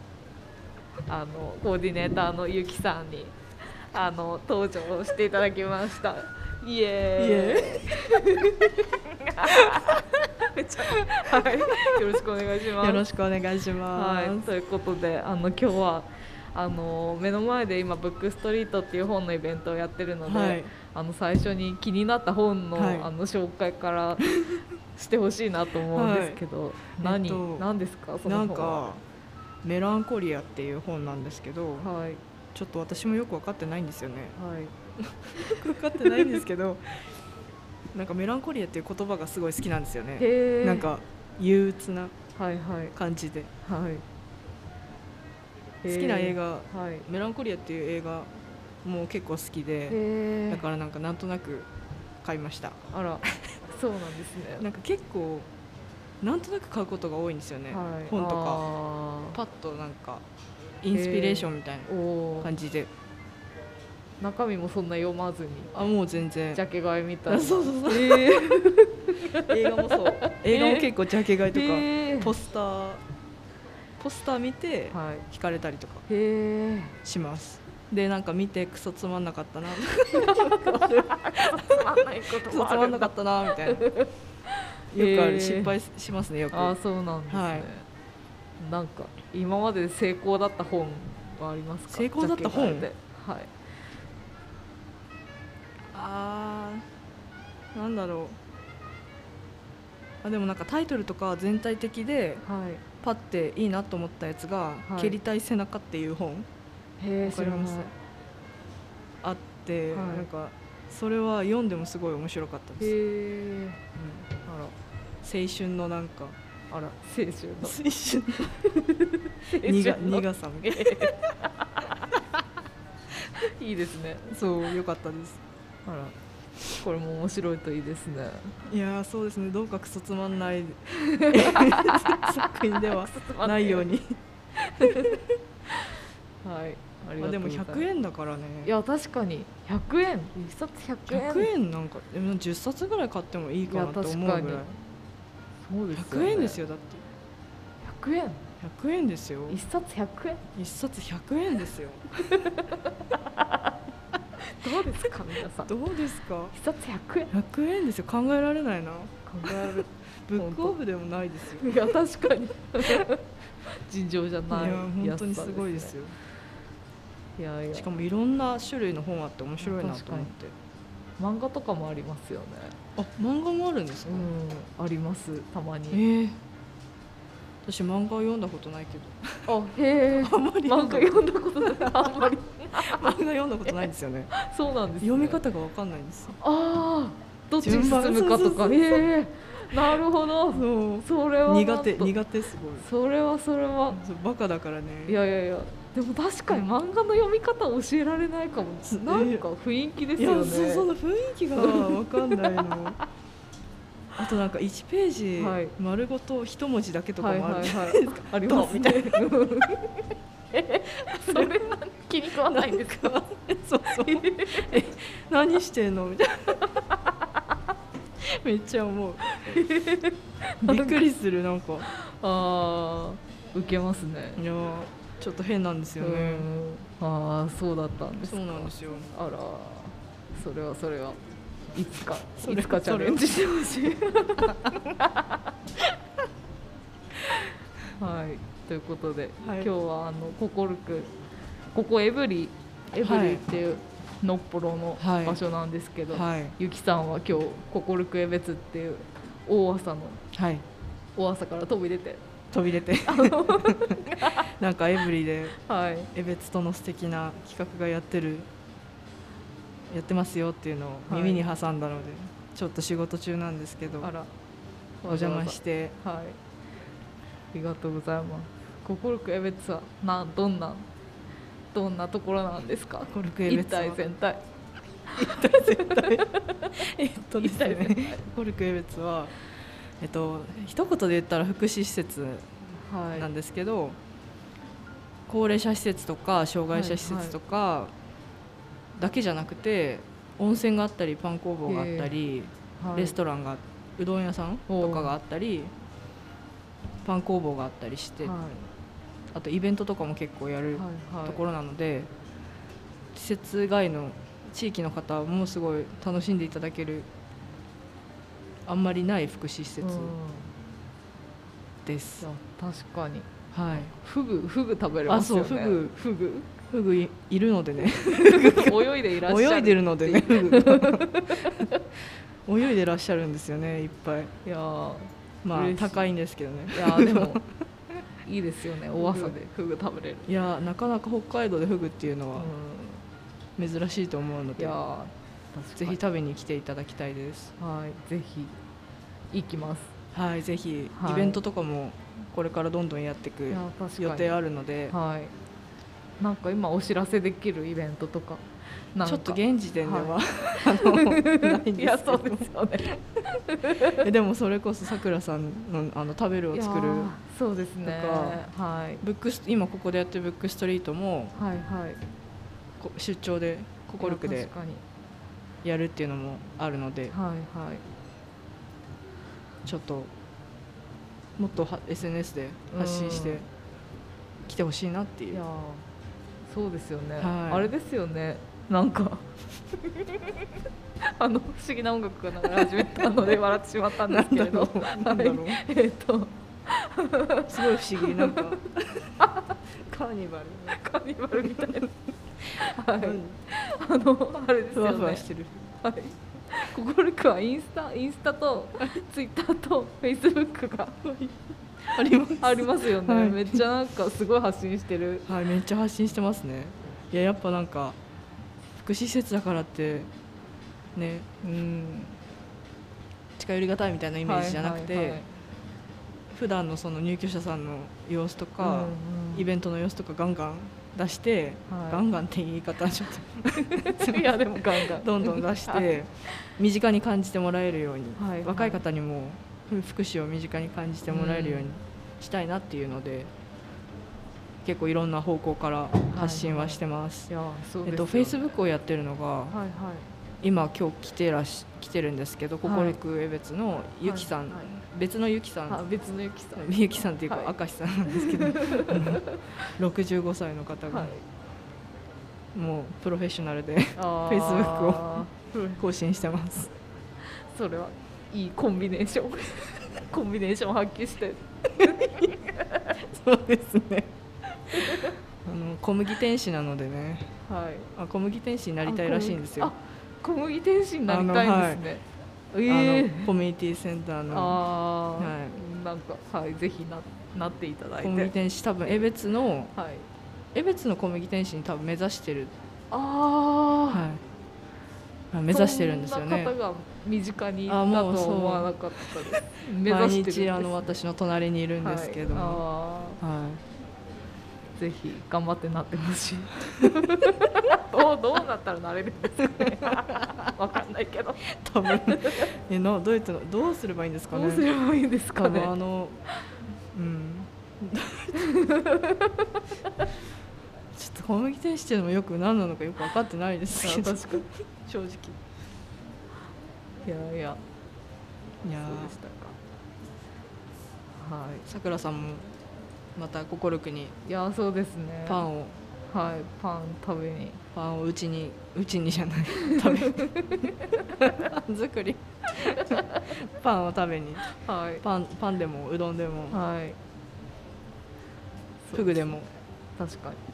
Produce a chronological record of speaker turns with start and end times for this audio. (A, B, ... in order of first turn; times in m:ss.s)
0:01.1-0:03.4 A
0:03.9-0:13.0 A
0:07.2-0:08.0 B
0:09.5-0:09.8 B
0:10.8-0:12.2 B
0:12.8-0:14.5 B
0:13.9-0:24.3 A
0:20.2-0:20.7 B
0:22.8-0:23.1 B
0:24.3-0:24.6 B
0:24.9-0:28.9 A
0:25.9-0:26.4 B
0:27.0-0:27.7 B
0:28.2-0:29.0 B
0:29.6-0:31.9 B
0:31.8-0:32.2 A
0:32.5-0:34.4 B
0:34.4-0:34.7 A
0:35.0-0:37.1 B
0:35.4-0:36.4 A
0:37.9-0:42.1 B
0:40.2-0:41.0 A
0:42.4-0:42.9 A
0:43.0-0:43.5 B
0:43.6-0:44.0 A
0:45.8-0:47.1 A
0:45.8-0:48.3 B
0:48.8-0:51.7 B
0:49.9-0:50.6 A
0:52.2-0:52.8 B
0:52.9-0:54.7 A
0:54.6-0:55.5 B
0:56.2-0:58.7 B
0:57.7-0:59.4 A
0:59.3-1:00.2 B
1:00.8-1:02.9 B
1:00.9-1:02.5 A
1:04.2-1:05.7 A
1:05.7-1:06.6 B
1:06.5-1:10.9 A
1:07.3-1:08.8 B
1:09.4-1:13.0 B
1:11.5-1:12.3 A
1:14.0-1:16.0 B
1:14.9-1:15.2 A
1:16.1-1:17.0 A
1:17.0-1:23.9 B
1:20.2-1:25.7 A
1:24.9-1:26.8 B
1:26.5-1:27.9 A
1:27.3-1:27.7 B
1:28.6-1:33.5 A
1:31.9-1:32.9 B
1:35.9-1:36.8 B
1:37.7-1:38.4 B
1:40.2-1:42.5 B
1:42.4-1:42.8 A
1:43.0-1:46.5 B
1:44.9-1:45.2 A
1:47.0-1:47.9 A
1:47.2-1:47.9 B
1:49.2-1:52.9 B
1:49.9-1:50.3 A
1:52.8-1:53.8 A
1:54.0-1:54.3 B
1:54.4-1:54.7 A
1:55.2-1:56.4 B
1:56.7-1:57.8 A
1:57.6-1:58.9 B
1:59.4-2:02.1 A
1:59.6-2:01.3 B
2:03.4-2:04.3 A
2:04.3-2:05.4 B
2:05.9-2:06.2 A
2:06.7-2:08.7 A
2:08.7-2:15.4 B
2:11.2-2:13.9 A
2:14.8-2:15.2 A
2:16.4-2:17.9 A
2:17.2-2:18.7 B
2:18.6-2:21.5 A
2:21.1-2:24.7 B
2:23.7-2:24.7 A
2:25.6-2:26.6 A
2:25.9-2:27.0 B
2:27.8-2:28.4 A
2:28.6-2:29.6 B
2:29.5-2:30.4 A
2:30.6-2:32.5 B
2:32.2-2:33.6 A
2:34.5-2:35.7 A
2:35.6-2:36.6 B
2:36.5-2:37.3 A
2:37.3-2:41.8 B
2:39.3-2:40.8 A
2:41.6-2:46.0 A
2:44.5-2:46.2 B
2:47.4-2:47.9 A
2:47.7-2:50.5 B
2:49.6-2:50.3 A
2:51.2-2:52.8 A
2:53.0-2:54.3 B
2:54.1-2:56.0 A
2:55.9-2:56.4 B
2:57.6-2:59.5 B
2:59.5-3:03.2 A
3:00.1-3:04.3 B
3:03.7-3:05.4 A
3:05.0-3:06.4 B
3:06.4-3:12.2 A
3:07.6-3:09.1 B
3:09.7-3:12.9 B
3:12.8-3:14.0 A
3:13.9-3:15.2 B
3:15.1-3:20.9 A
3:18.9-3:19.4 B
3:20.2-3:23.0 B
3:21.5-3:22.9 A
3:24.2-3:29.6 B
3:25.4-3:25.7 A
3:27.2-3:33.2 A
3:31.1-3:31.8 B
3:32.4-3:36.6 B
3:34.0-3:34.9 A
3:36.8-3:37.2 A
3:38.2-3:39.6 B
3:39.2-3:41.0 A
3:40.6-3:41.9 B
3:41.9-3:44.4 A
3:44.4-3:46.5 B
3:46.0-3:51.2 A
3:48.2-3:49.1 B
3:51.7-3:55.5 A
3:52.4-3:53.6 B
3:54.4-3:54.8 B
3:58.0-4:01.1 A
3:59.4-3:59.7 B
4:01.7-4:10.2 A
4:03.0-4:03.4 B
4:05.0-4:05.4 B
4:06.1-4:06.6 B
4:10.3-4:10.6 B
4:11.2-4:12.2 A
4:12.5-4:15.6 B
4:13.0-4:14.5 A
4:15.6-4:16.1 A
4:16.1-4:18.5 B
4:19.9-4:24.1 B
4:21.1-4:21.5 A
4:24.0-4:24.3 A
4:25.0-4:26.4 A
4:25.1-4:26.0 B
4:27.5-4:30.9 A
4:31.7-4:34.4 A
4:33.1-4:34.0 B
4:35.1-4:36.9 A
4:35.1-4:39.3 B
4:37.4-4:38.2 A
4:40.0-4:44.0 B
4:42.8-4:43.3 A
4:45.3-4:47.9 B
4:46.7-4:47.4 A
4:49.0-4:55.7 B
4:51.7-4:52.1 A
4:52.8-4:53.2 A
4:54.7-4:55.2 A
4:57.0-4:58.4 B
4:58.2-4:58.7 A
4:59.3-5:02.1 B
5:00.8-5:01.4 A
5:03.1-5:07.1 B
5:08.7-5:10.2 B
5:09.8-5:10.5 A
5:11.8-5:12.3 B
5:12.2-5:13.3 A
5:13.5-5:13.9 B
5:14.0-5:16.4 A
5:15.1-5:21.7 B
5:18.0-5:21.8 A
5:22.5-5:24.3 B
5:24.4-5:26.0 A
5:25.4-5:27.5 B
5:26.7-5:27.4 A
5:28.2-5:30.4 A
5:29.0-5:29.4 B
5:30.3-5:32.5 B
5:32.4-5:33.0 A
5:33.6-5:34.8 B
5:34.6-5:36.0 A
5:35.8-5:37.5 B
5:37.6-5:38.5 A
5:39.3-5:39.9 A
5:40.1-5:45.0 B
5:41.0-5:41.4 A
5:43.5-5:44.4 A
5:44.9-5:45.3 A
5:46.2-5:54.1 A
5:49.0-5:52.5 B
5:54.0-5:57.1 B
5:56.5-5:59.0 A
5:57.8-5:58.4 B
5:59.0-6:01.3 B
6:01.4-6:02.0 A
6:02.8-6:04.5 B
6:04.0-6:04.8 A
6:05.6-6:07.2 B
6:07.1-6:07.8 A
6:09.6-6:10.1 B
6:11.4-6:13.5 B
6:12.7-6:13.4 A
6:14.5-6:15.4 B
6:15.3-6:15.8 A
6:16.5-6:19.3 A
6:17.2-6:17.7 B
6:19.9-6:20.4 A
6:21.0-6:28.5 A
6:24.0-6:25.6 B
6:27.5-6:29.2 B
6:29.2-6:29.6 A
6:29.7-6:30.8 B
6:30.7-6:32.0 A
6:31.4-6:31.8 B
6:32.5-6:35.3 A
6:33.0-6:33.4 B
6:34.7-6:35.6 B
6:35.8-6:41.0 A
6:41.0-6:43.7 B
6:42.4-6:45.3 A
6:45.3-6:48.0 B
6:48.8-6:50.1 B
6:51.0-6:51.3 B
6:51.4-6:52.2 A
6:53.4-6:55.2 B
6:54.2-6:55.3 A
6:56.3-7:13.3 B
6:58.6-6:59.5 A
7:01.7-7:02.0 A
7:03.7-7:06.4 A
7:08.2-7:08.8 A
7:11.1-7:11.7 A
7:14.6-7:17.3 B
7:16.1-7:18.5 A
7:17.8-7:19.6 B
7:19.5-7:20.1 A
7:20.4-7:25.8 B
7:22.6-7:23.0 A
7:24.0-7:24.7 A
7:25.7-7:27.5 A
7:26.6-7:31.1 B
7:28.1-7:29.7 A
7:30.9-7:31.2 A
7:32.5-7:35.2 B
7:34.0-7:35.8 A
7:35.8-7:36.7 B
7:37.2-7:42.9 A
7:41.8-7:42.3 B
7:43.0-7:47.3 B
7:44.8-7:45.1 A
7:47.5-7:47.9 A
7:48.0-7:49.7 B
7:48.8-7:53.3 A
7:51.1-7:51.9 B
7:52.7-7:54.6 B
7:54.3-7:58.3 A
7:55.2-7:55.6 B
7:58.0-7:59.7 B
7:59.8-8:00.1 A
8:00.5-8:02.5 B
8:02.9-8:04.1 A
8:03.9-8:04.2 B
8:05.3-8:06.5 B
8:05.5-8:11.0 A
8:07.7-8:12.6 B
8:11.8-8:13.2 A
8:13.2-8:13.6 B
8:14.8-8:22.5 A
8:19.6-8:20.2 B
8:21.5-8:24.7 B
8:24.3-8:25.7 A
8:25.4-8:26.2 B
8:26.9-8:28.5 B
8:28.4-8:30.1 A
8:30.9-8:35.4 B
8:33.8-8:34.5 A
8:37.0-8:37.6 A
8:38.6-8:39.2 B
8:38.8-8:39.6 A
8:41.2-8:41.6 A
8:41.6-8:42.6 B
8:43.2-8:44.2 B
8:44.2-8:45.5 A
8:45.3-8:45.8 B
8:46.1-8:47.6 A
8:47.7-8:56.6 B
8:49.7-8:51.5 A
8:52.9-8:53.3 A
8:54.5-8:55.0 A
8:56.5-8:57.0 A
8:58.9-8:59.4 A
8:58.9-8:59.5 B
9:00.0-9:00.4 A